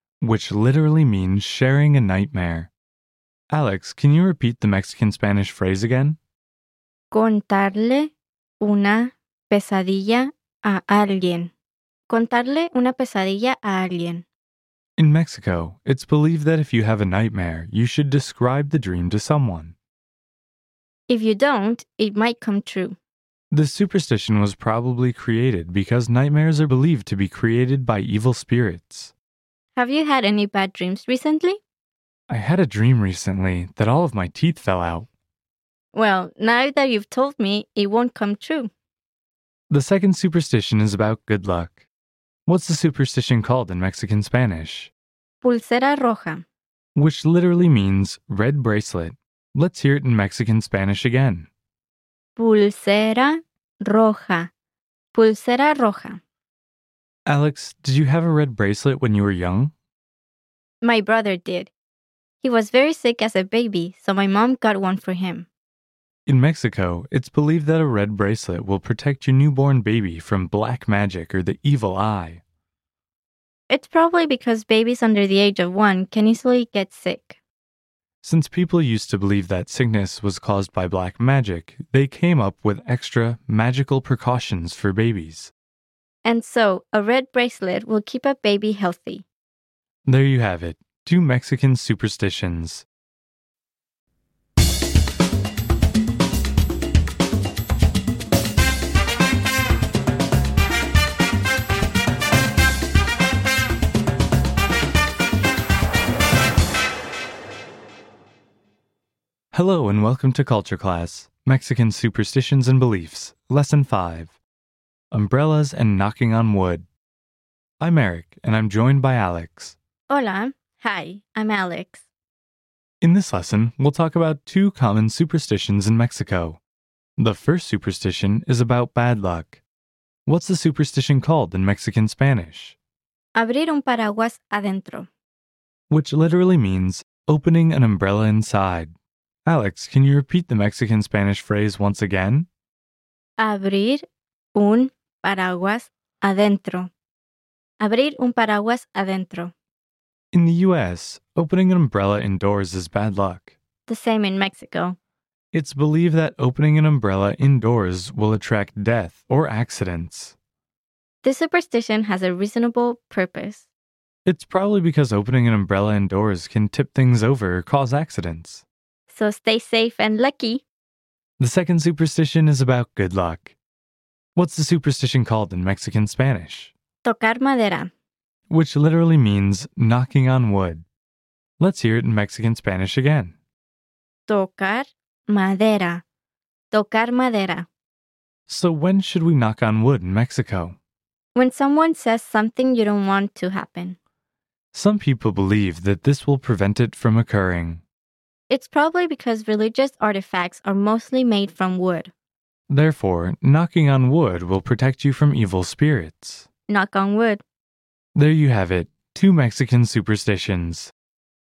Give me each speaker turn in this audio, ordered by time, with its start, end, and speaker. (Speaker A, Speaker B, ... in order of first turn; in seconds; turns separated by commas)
Speaker A: 0.2-2.7, Speaker A: 3.5-6.2, Speaker B: 7.1-11.5, Speaker B: 12.1-14.2, Speaker A: 15.0-19.8, Speaker B: 21.1-23.0, Speaker A: 23.5-29.1, Speaker B: 29.7-31.6, Speaker A: 32.3-35.1, Speaker B: 35.9-38.7, Speaker A: 39.7-41.9, Speaker A: 42.5-44.9, Speaker B: 45.4-46.4, Speaker A: 46.9-51.5, Speaker B: 52.4-54.5, Speaker B: 55.1-56.2, Speaker A: 57.2-59.7, Speaker B: 60.8-61.7, Speaker B: 62.4-65.5, Speaker A: 66.2-72.4, Speaker B: 73.7-77.4, Speaker A: 78.2-85.5, Speaker B: 86.2-89.2, Speaker A: 90.0-92.8, Speaker A: 109.5-114.4, Speaker A: 115.1-116.8, Speaker A: 117.8-119.8, Speaker B: 120.1-122.0, Speaker A: 123.0-126.6, Speaker A: 127.2-129.6, Speaker A: 130.2-132.8, Speaker B: 133.3-135.1, Speaker A: 135.9-138.9, Speaker A: 139.4-142.5, Speaker B: 143.4-146.9, Speaker B: 147.8-149.5, Speaker A: 150.3-153.5, Speaker B: 153.9-155.0, Speaker A: 155.5-160.3, Speaker B: 161.2-163.7, Speaker A: 164.2-168.6, Speaker B: 169.1-170.6, Speaker A: 171.4-173.6, Speaker A: 174.3-176.7, Speaker B: 177.0-177.9, Speaker A: 178.5-180.8, Speaker A: 181.6-183.3, Speaker B: 184.3-186.0, Speaker B: 186.7-187.7, Speaker A: 188.5-190.8, Speaker B: 191.3-194.0, Speaker A: 194.7-197.8, Speaker B: 198.5-202.1, Speaker A: 202.7-206.5, Speaker B: 206.7-207.4, Speaker A: 208.1-210.9